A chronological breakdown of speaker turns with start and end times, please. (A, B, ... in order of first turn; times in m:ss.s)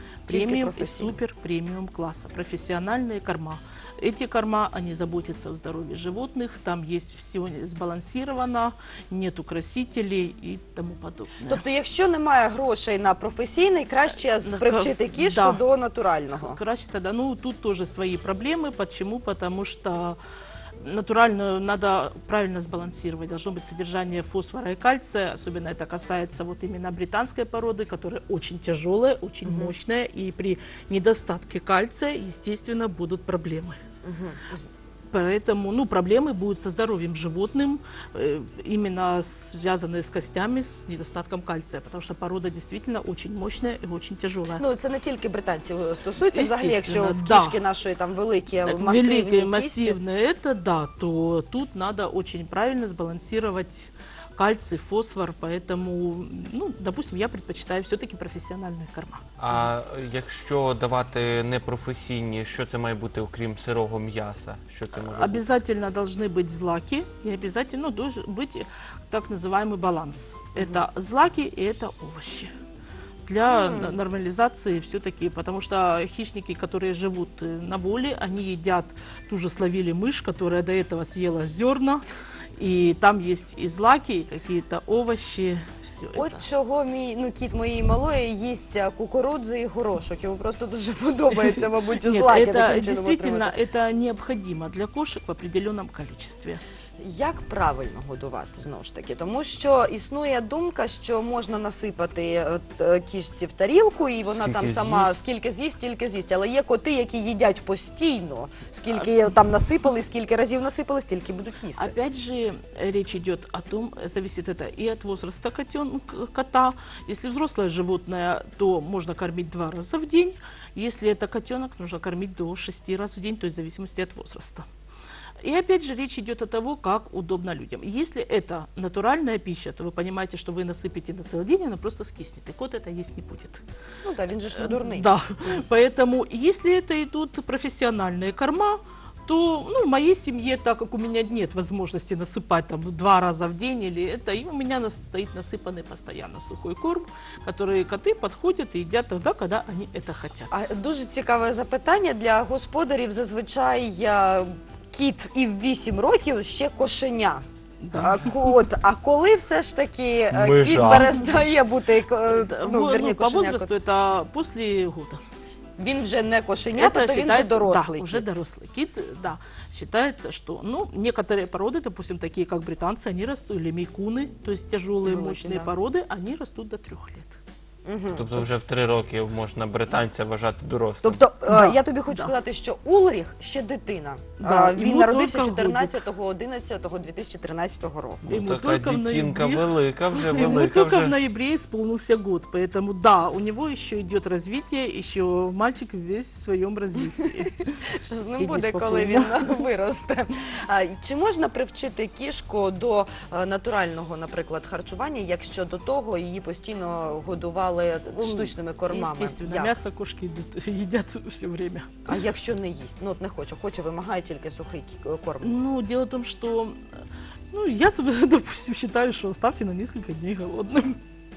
0:00.2-0:11.6 A
0:00.3-0:01.2 B
0:11.4-0:16.6 B
0:14.4-0:15.6 A
0:16.3-0:20.2 A
0:20.8-0:33.8 A
0:29.4-0:29.7 B
0:34.0-0:34.7 B
0:35.1-0:44.6 A
0:44.6-0:50.0 B
0:46.3-0:47.6 A
0:48.6-0:59.2 A
0:59.4-1:05.5 C
1:05.1-1:12.5 A
1:10.6-1:10.8 B
1:13.2-1:22.0 A
1:13.5-1:14.0 B
1:22.6-1:26.4 A
1:26.1-1:33.5 B
1:32.0-1:36.6 A
1:37.0-1:51.9 B
1:44.3-1:45.1 C
1:51.8-2:04.6 A
2:05.4-2:13.6 A
2:14.0-2:15.1 B
2:14.6-2:30.5 A
2:30.5-2:43.7 B
2:37.8-2:38.5 A
2:40.3-2:41.1 C
2:42.3-2:45.2 A
2:45.8-2:48.2 B
2:46.7-2:57.4 A
2:55.0-2:55.7 B
2:57.8-2:58.5 B
2:58.1-3:01.2 C
3:01.0-3:08.2 B
3:01.5-3:02.3 A
3:04.4-3:06.0 A
3:08.2-3:11.2 C
3:08.3-3:17.8 A
3:18.0-3:29.8 B
3:18.3-3:19.6 A
3:28.2-3:32.0 A
3:32.1-3:35.5 B
3:35.4-3:36.8 A
3:37.5-3:41.0 A